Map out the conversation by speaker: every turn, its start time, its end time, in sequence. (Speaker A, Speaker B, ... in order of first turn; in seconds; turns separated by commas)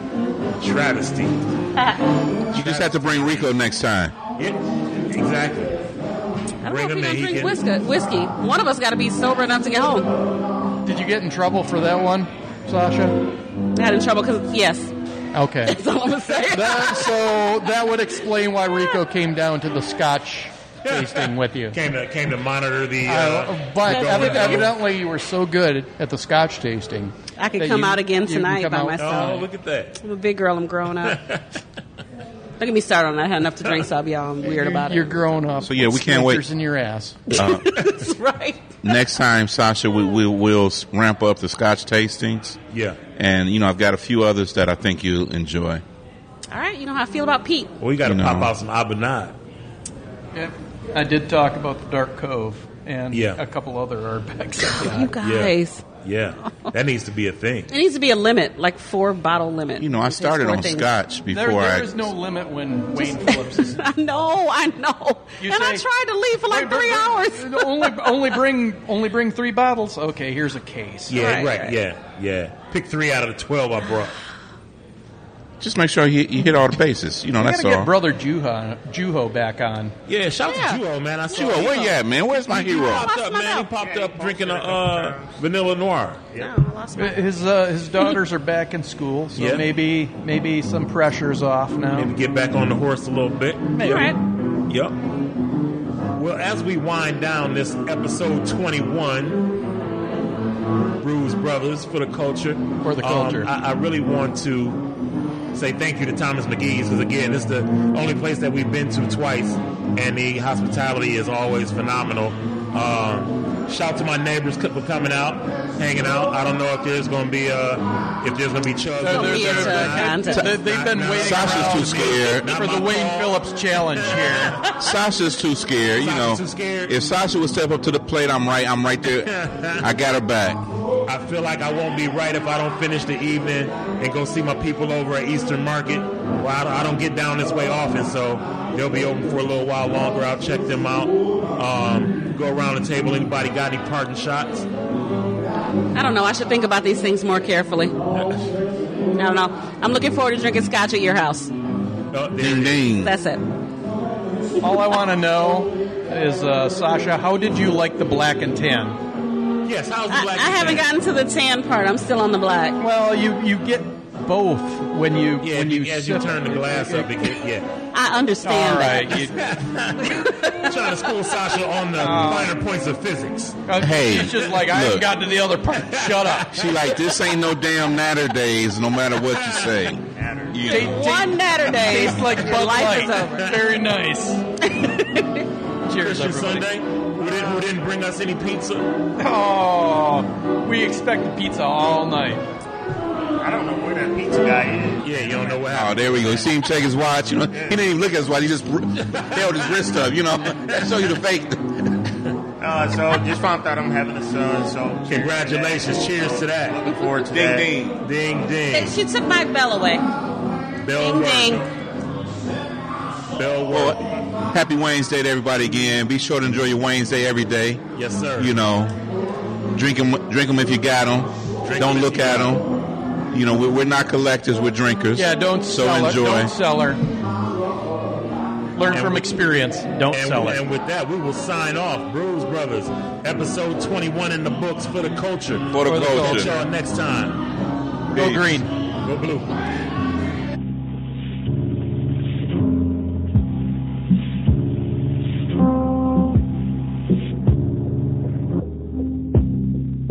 Speaker A: 0.6-1.4, Speaker B: 1.8-2.1, Speaker A: 2.5-3.5, Speaker C: 2.5-4.1, Speaker A: 4.4-5.8, Speaker B: 6.6-10.1, Speaker A: 6.6-7.6, Speaker D: 10.8-13.2, Speaker B: 13.8-14.9, Speaker D: 15.3-15.8, Speaker B: 15.7-17.3, Speaker D: 16.4-21.8, Speaker A: 20.8-24.8, Speaker D: 23.1-29.4, Speaker B: 23.9-24.7, Speaker B: 27.4-29.5, Speaker A: 29.0-30.0, Speaker B: 30.0-31.2, Speaker A: 31.0-31.4, Speaker B: 32.6-35.2, Speaker D: 34.4-37.3, Speaker C: 35.6-36.4, Speaker B: 37.3-38.8, Speaker C: 37.4-37.8, Speaker C: 38.8-42.6, Speaker A: 42.7-43.0, Speaker C: 43.2-45.8, Speaker B: 46.5-47.8, Speaker A: 47.8-49.4, Speaker C: 48.0-48.5, Speaker D: 50.3-55.1, Speaker A: 53.1-53.4, Speaker B: 54.7-55.9, Speaker A: 55.2-57.7, Speaker B: 57.7-60.9, Speaker C: 59.8-62.1, Speaker D: 61.3-63.9, Speaker B: 63.0-68.1, Speaker D: 65.4-65.8, Speaker D: 66.5-71.5, Speaker A: 71.1-74.2, Speaker B: 71.1-71.8, Speaker C: 75.6-77.9, Speaker D: 77.4-80.0, Speaker A: 80.1-82.0, Speaker B: 80.5-80.8, Speaker C: 81.3-83.1, Speaker B: 81.5-81.9, Speaker B: 82.5-83.7, Speaker A: 82.5-86.5, Speaker E: 83.8-85.4, Speaker B: 86.3-87.3, Speaker D: 87.0-92.1, Speaker A: 89.4-89.7, Speaker A: 91.9-94.1, Speaker D: 93.8-94.1, Speaker B: 93.8-94.2, Speaker A: 94.7-95.0, Speaker A: 96.2-99.5, Speaker A: 101.0-104.8, Speaker D: 102.8-103.5, Speaker A: 105.5-123.4, Speaker D: 119.0-124.7, Speaker B: 119.0-120.5, Speaker C: 121.2-122.5, Speaker A: 124.0-124.6, Speaker C: 124.8-130.6, Speaker A: 126.0-127.0, Speaker A: 129.0-129.9, Speaker A: 131.1-144.7, Speaker B: 145.9-148.0, Speaker A: 148.1-148.5, Speaker B: 149.2-151.5, Speaker A: 152.1-152.9, Speaker C: 152.4-153.1, Speaker B: 152.9-153.4, Speaker D: 154.6-159.0, Speaker A: 159.7-160.9, Speaker B: 160.1-162.8, Speaker D: 162.8-167.3, Speaker A: 165.4-167.7, Speaker B: 167.9-169.3, Speaker D: 168.4-169.6, Speaker A: 169.4-173.7, Speaker B: 170.0-170.7, Speaker D: 172.0-172.6, Speaker D: 173.7-176.6, Speaker C: 173.8-175.1, Speaker A: 175.7-176.9, Speaker C: 176.5-181.0, Speaker A: 179.2-179.9, Speaker E: 180.1-180.7, Speaker D: 180.7-184.4, Speaker B: 180.8-183.6, Speaker B: 184.6-185.5, Speaker D: 185.9-186.7, Speaker A: 186.0-188.9, Speaker D: 189.2-192.4, Speaker E: 193.4-196.2, Speaker A: 195.0-196.5, Speaker C: 195.7-202.0, Speaker E: 197.5-197.8, Speaker E: 202.6-207.8, Speaker A: 205.1-206.8, Speaker C: 207.3-207.9, Speaker A: 208.0-209.0, Speaker B: 208.7-210.0, Speaker A: 210.8-211.7, Speaker B: 211.0-211.7, Speaker A: 213.3-214.0, Speaker C: 213.7-217.8, Speaker A: 217.9-218.6, Speaker C: 218.4-218.9, Speaker C: 219.7-222.7, Speaker A: 221.6-222.6, Speaker C: 223.3-226.5, Speaker D: 225.2-227.0, Speaker D: 228.8-230.6, Speaker A: 228.9-229.4, Speaker A: 230.1-237.4, Speaker C: 235.7-236.5, Speaker D: 235.8-236.7, Speaker D: 238.1-238.7, Speaker C: 238.1-238.6, Speaker A: 239.0-239.5